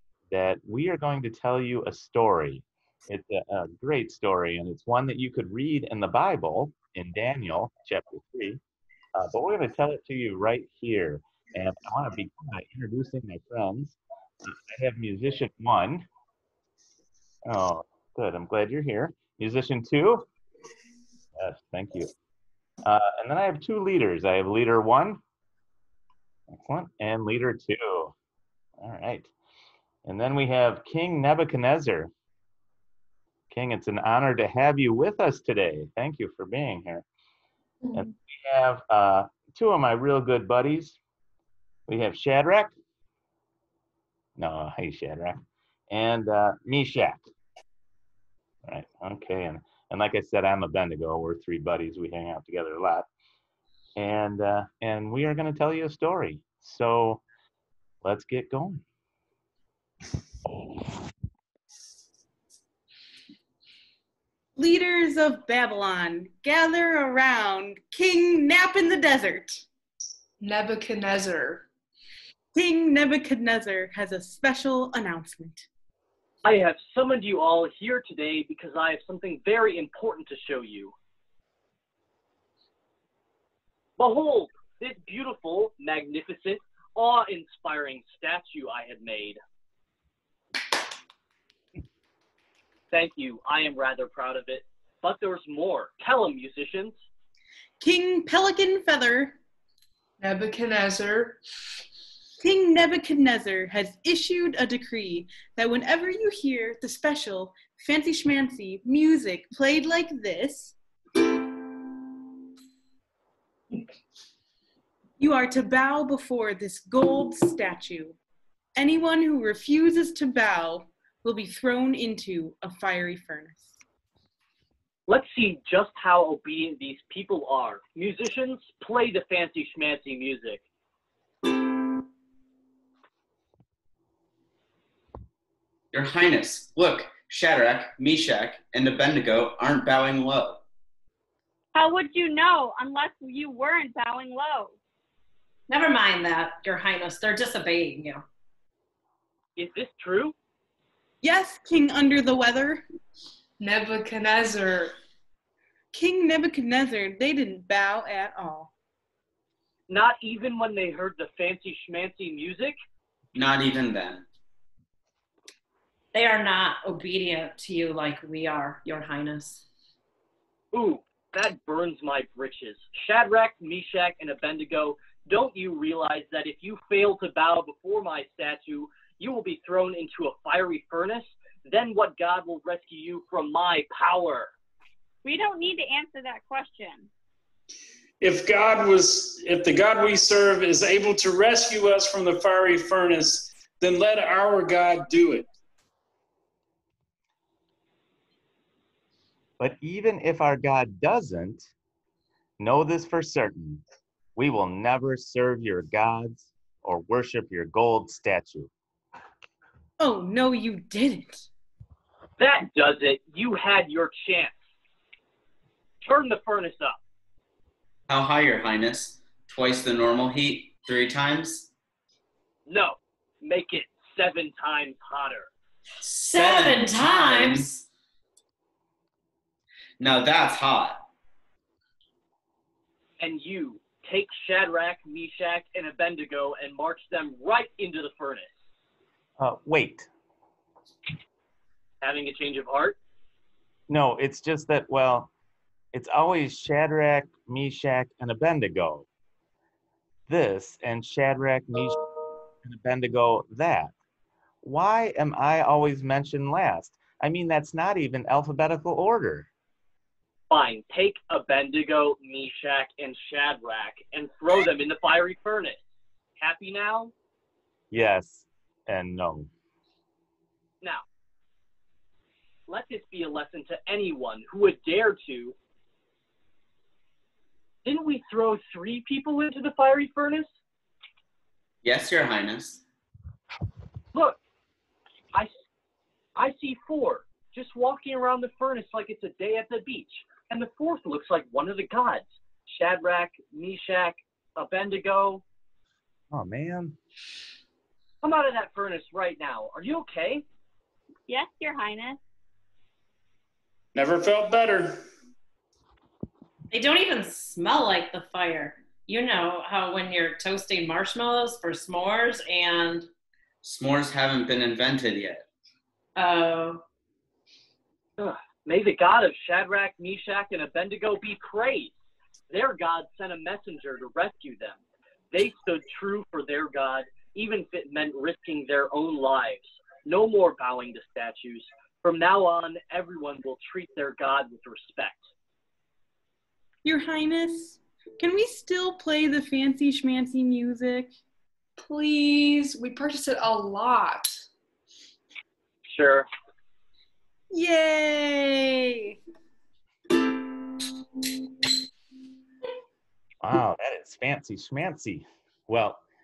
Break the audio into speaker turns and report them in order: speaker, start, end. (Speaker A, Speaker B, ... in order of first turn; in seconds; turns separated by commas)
Speaker A: 0.3-8.6, Speaker A: 9.2-16.1, Speaker A: 17.5-20.3, Speaker A: 21.4-22.1, Speaker A: 22.9-25.2, Speaker A: 26.5-28.1, Speaker A: 28.8-29.3, Speaker A: 30.1-32.1, Speaker A: 33.5-37.0, Speaker A: 37.9-41.0, Speaker A: 41.9-42.7, Speaker A: 44.4-45.4, Speaker A: 45.9-47.2, Speaker A: 48.7-53.1, Speaker A: 54.0-57.2, Speaker A: 58.0-58.8, Speaker B: 64.6-69.7, Speaker C: 70.4-71.7, Speaker B: 72.5-75.7, Speaker D: 76.4-80.9, Speaker D: 84.0-89.4, Speaker D: 92.9-97.0, Speaker B: 97.8-99.4, Speaker C: 100.2-101.4, Speaker B: 102.4-110.8, Speaker B: 115.2-118.2, Speaker B: 118.8-123.7, Speaker D: 125.1-130.6, Speaker E: 135.9-140.6, Speaker F: 141.8-144.7, Speaker G: 145.7-148.2, Speaker D: 149.6-150.3, Speaker B: 151.2-152.8, Speaker C: 153.6-154.9, Speaker B: 155.9-158.7, Speaker D: 159.9-162.8, Speaker E: 163.3-164.3, Speaker G: 166.1-169.7, Speaker D: 170.7-184.5, Speaker F: 185.2-187.1, Speaker H: 188.2-195.5, Speaker A: 199.6-201.7, Speaker A: 202.6-203.8, Speaker A: 204.4-208.7, Speaker B: 210.0-211.5, Speaker D: 212.4-214.6, Speaker D: 216.0-217.0, Speaker E: 218.1-221.7, Speaker D: 222.7-225.5, Speaker E: 226.0-227.8, Speaker G: 226.1-227.7, Speaker E: 230.0-231.1, Speaker D: 233.2-238.5, Speaker A: 239.4-240.1, Speaker D: 242.0-243.0, Speaker A: 243.9-245.3, Speaker A: 245.9-249.1, Speaker A: 250.3-252.0, Speaker A: 252.7-253.9, Speaker A: 254.6-259.5, Speaker D: 260.5-265.8, Speaker D: 266.4-267.1, Speaker A: 267.9-269.5, Speaker D: 272.7-275.6, Speaker D: 277.9-280.5, Speaker E: 281.8-282.8, Speaker D: 286.4-295.4, Speaker A: 296.3-297.0, Speaker D: 298.2-300.4, Speaker F: 301.3-302.2, Speaker H: 303.9-305.0, Speaker G: 306.7-313.1, Speaker E: 313.6-315.4, Speaker G: 316.2-316.8, Speaker D: 318.2-321.9, Speaker D: 322.5-324.8, Speaker D: 325.3-335.2, Speaker B: 336.8-341.1, Speaker C: 341.8-344.5, Speaker D: 345.9-346.3, Speaker B: 347.5-349.2, Speaker A: 353.4-356.0